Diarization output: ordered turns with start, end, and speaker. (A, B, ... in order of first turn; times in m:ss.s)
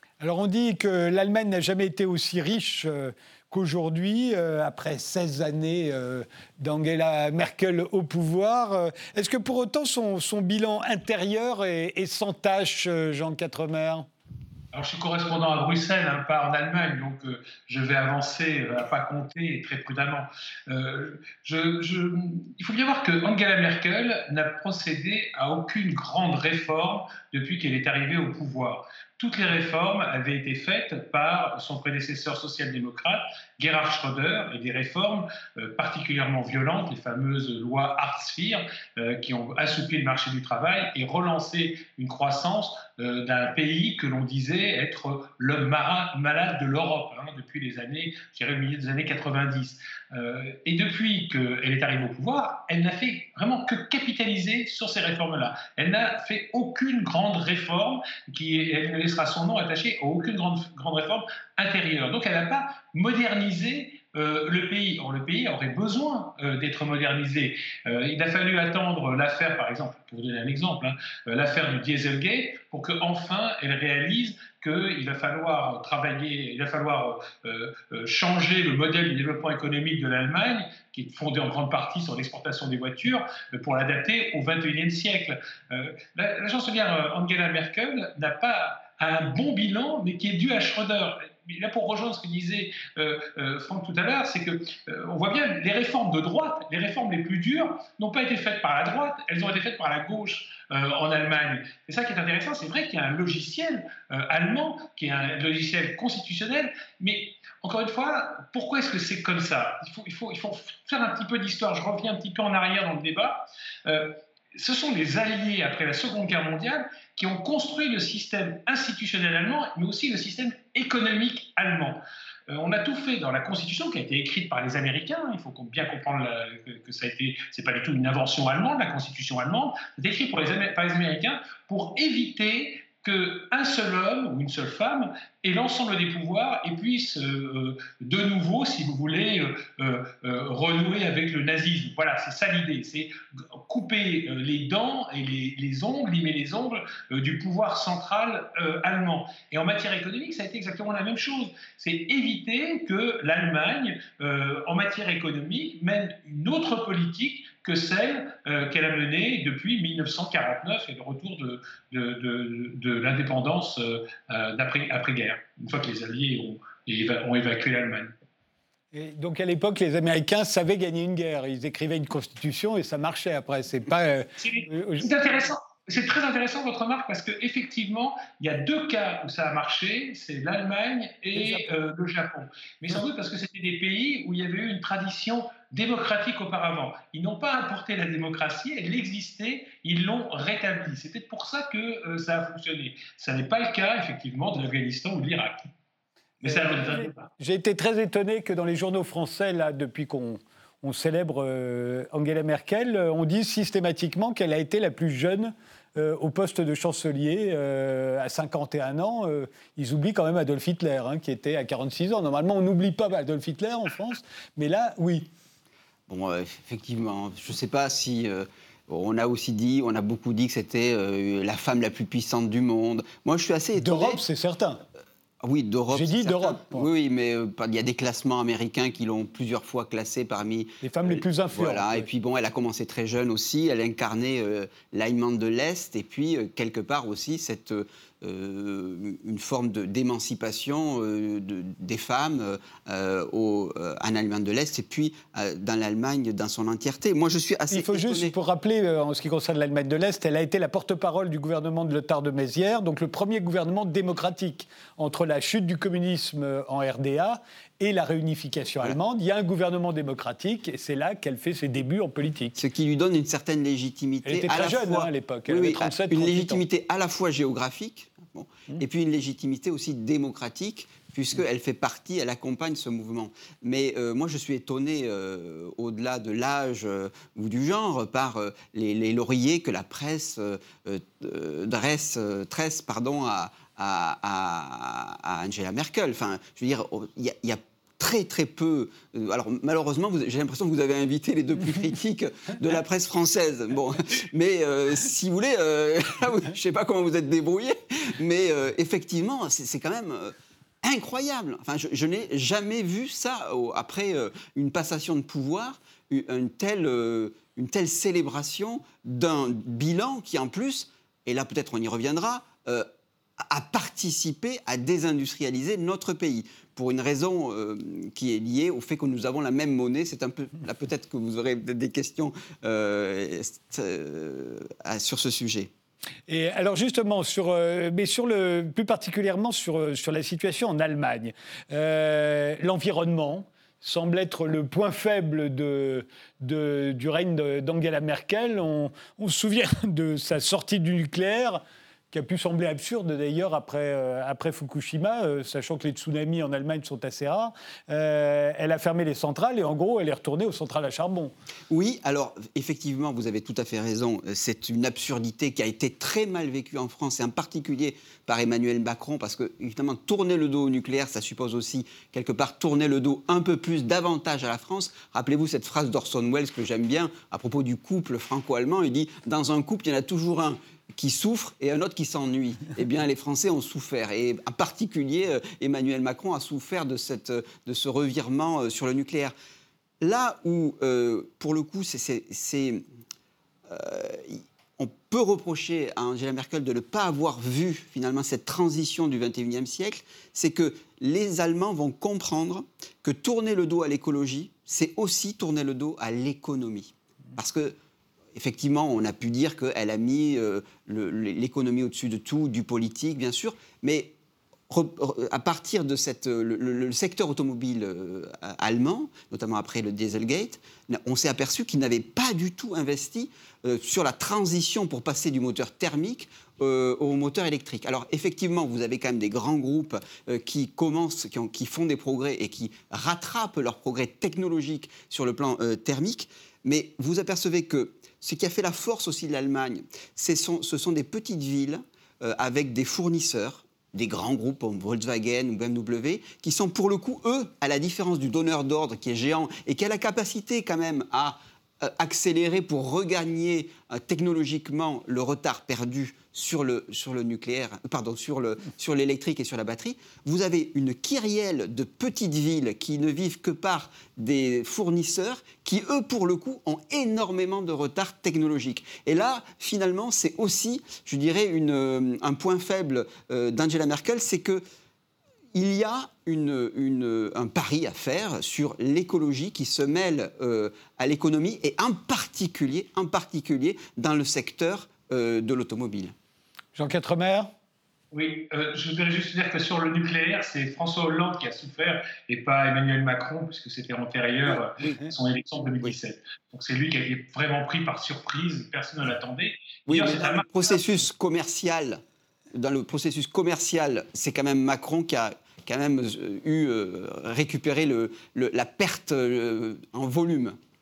0:00.2-0:14.1 A
0:14.7-2:48.1 B
2:48.9-2:55.1 A
2:54.4-3:15.7 B
3:01.4-3:01.6 A
3:16.4-3:17.3 B
3:16.4-3:35.3 A
3:36.1-3:44.2 C
3:43.8-3:44.8 A
3:45.4-4:08.3 C
3:45.9-3:46.9 A
3:50.8-3:52.1 A
4:07.7-4:22.6 A
4:22.6-5:12.9 C
4:24.2-4:26.6 A
5:13.4-5:25.7 C
5:26.3-5:51.3 A
5:51.7-6:19.3 C
6:20.0-6:22.8 C
6:23.7-6:37.8 C
6:38.3-6:44.1 C
6:44.7-7:44.6 C
7:45.5-7:56.1 C
7:56.8-7:57.5 A
7:58.1-8:10.8 B
8:04.5-8:05.0 C
8:09.9-8:12.0 C
8:12.5-8:20.6 C